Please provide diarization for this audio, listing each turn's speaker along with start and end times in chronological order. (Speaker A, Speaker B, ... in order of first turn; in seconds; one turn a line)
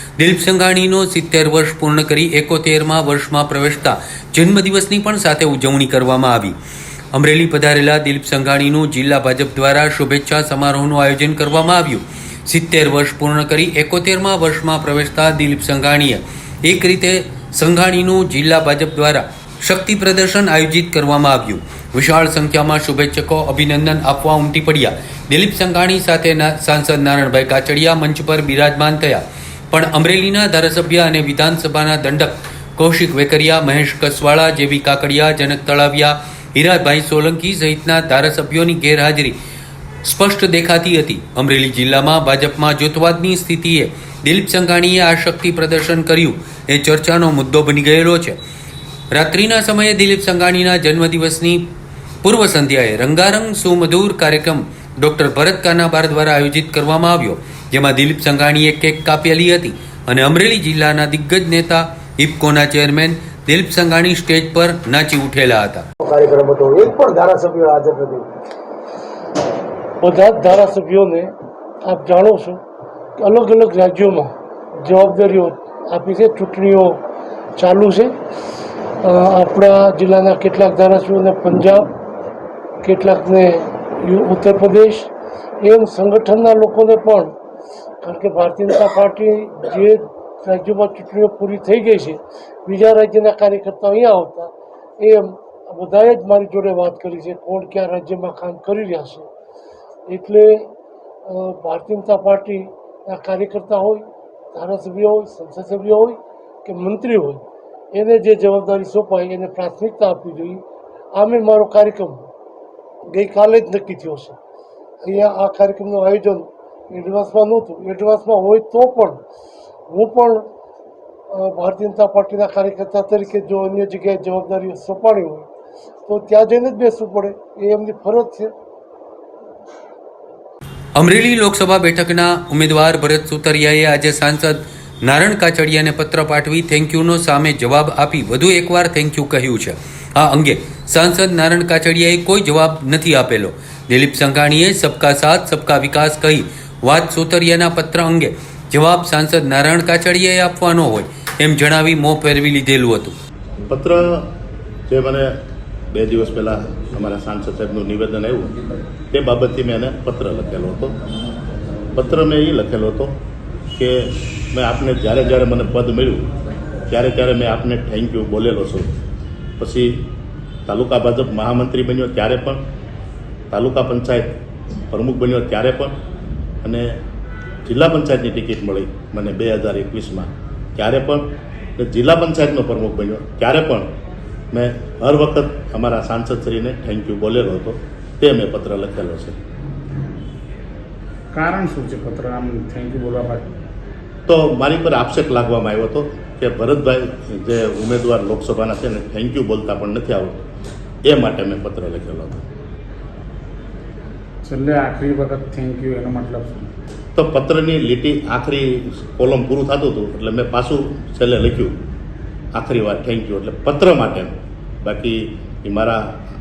Speaker A: 0.2-6.5
Speaker A: 7.1-39.4
Speaker A: 40.0-48.4
Speaker A: 49.1-51.6
Speaker A: 52.2-65.8
Speaker B: 66.0-68.2
Speaker C: 70.0-72.6
Speaker C: 73.2-74.3
Speaker C: 74.8-77.0
Speaker C: 77.6-78.1
Speaker C: 79.0-81.9
Speaker C: 82.8-85.1
Speaker C: 85.6-87.3
Speaker C: 88.0-99.3
Speaker C: 100.1-100.7
Speaker C: 101.3-112.2
Speaker C: 113.1-114.4
Speaker C: 115.0-119.2
Speaker C: 119.9-120.5
Speaker C: 121.3-125.5
Speaker C: 126.1-128.5
Speaker A: 131.0-153.2
Speaker D: 153.7-154.3
Speaker D: 154.9-155.3
Speaker D: 155.9-158.6
Speaker D: 159.1-161.0
Speaker D: 161.9-163.2
Speaker D: 163.8-166.3
Speaker D: 166.9-169.0
Speaker D: 169.6-170.0
Speaker D: 170.7-172.6
Speaker D: 173.5-174.4
Speaker D: 174.9-176.0
Speaker D: 176.6-176.9
Speaker D: 177.7-183.9
Speaker D: 184.5-189.4
Speaker E: 191.3-193.5
Speaker D: 194.3-200.4
Speaker D: 201.1-202.4
Speaker E: 204.4-206.7
Speaker D: 207.2-211.8
Speaker D: 212.6-216.1